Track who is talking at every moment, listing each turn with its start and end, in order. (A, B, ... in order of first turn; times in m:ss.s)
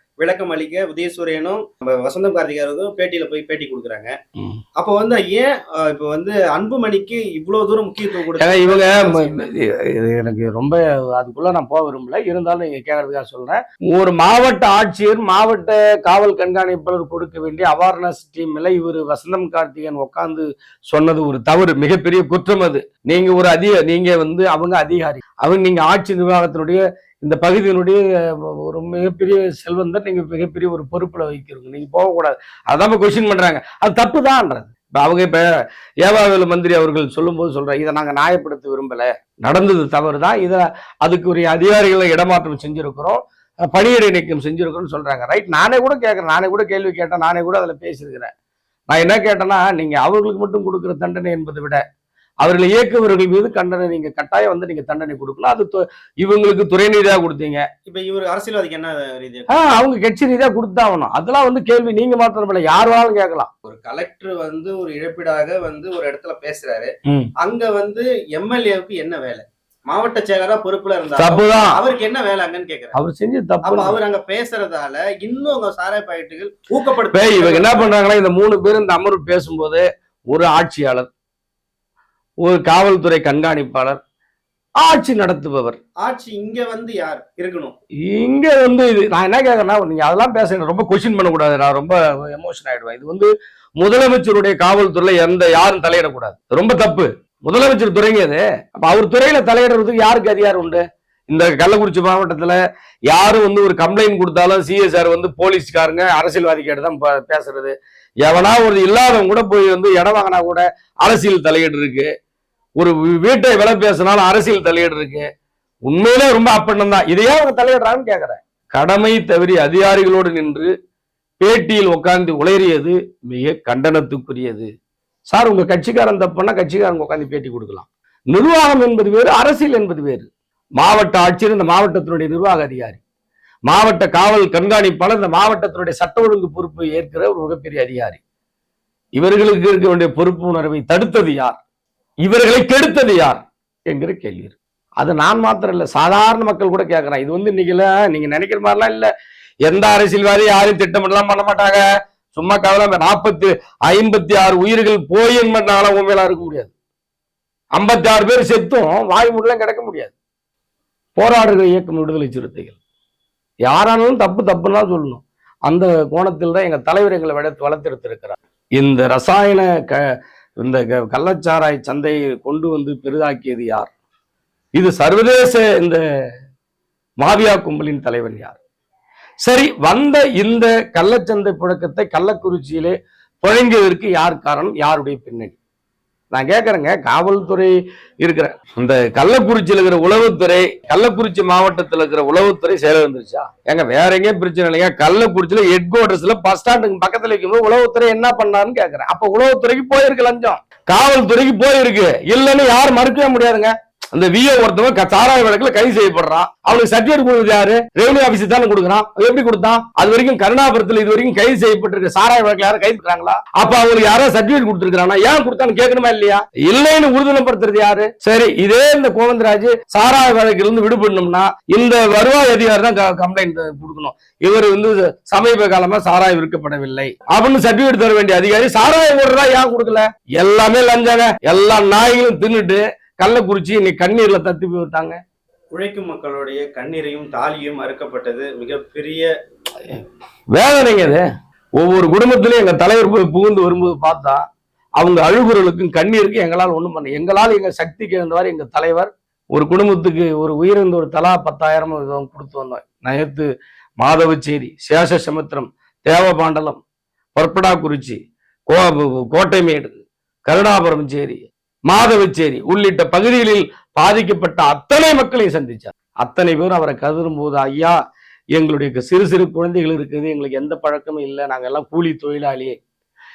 0:00.2-0:04.1 A
0:04.8-0:09.4 A
0:08.4-0:35.4 B
0:36.0-0:48.3 B
0:48.9-0:51.8 B
0:52.4-0:57.7 B
0:57.8-0:59.8 A
0:59.5-1:03.5 B
1:03.6-1:12.9 A
1:11.2-1:11.8 B
1:12.9-1:14.0 B
1:13.6-1:17.9 A
1:17.1-1:21.1 B
1:22.4-1:24.0 B
1:24.8-1:25.8 B
1:26.0-1:27.7 A
1:28.0-1:52.1 B
1:52.8-1:55.3 B
1:55.9-2:00.7 B
2:01.4-2:04.7 B
2:05.3-2:13.0 B
2:13.7-2:18.2 B
2:19.2-2:21.6 B
2:22.2-2:29.1 B
2:29.6-2:31.8 B
2:32.3-2:36.7 B
2:37.8-2:40.1 B
2:41.2-2:42.8 B
2:43.7-2:53.9 B
2:54.8-2:56.0 B
2:57.2-2:58.6 B
2:59.4-3:05.6 B
3:06.3-3:55.2 B
3:55.7-3:59.3 A
4:00.5-4:01.2 B
4:01.8-4:04.4 B
4:05.0-4:13.5 B
4:14.0-4:16.8 B
4:17.3-4:28.0 B
4:28.5-4:32.8 B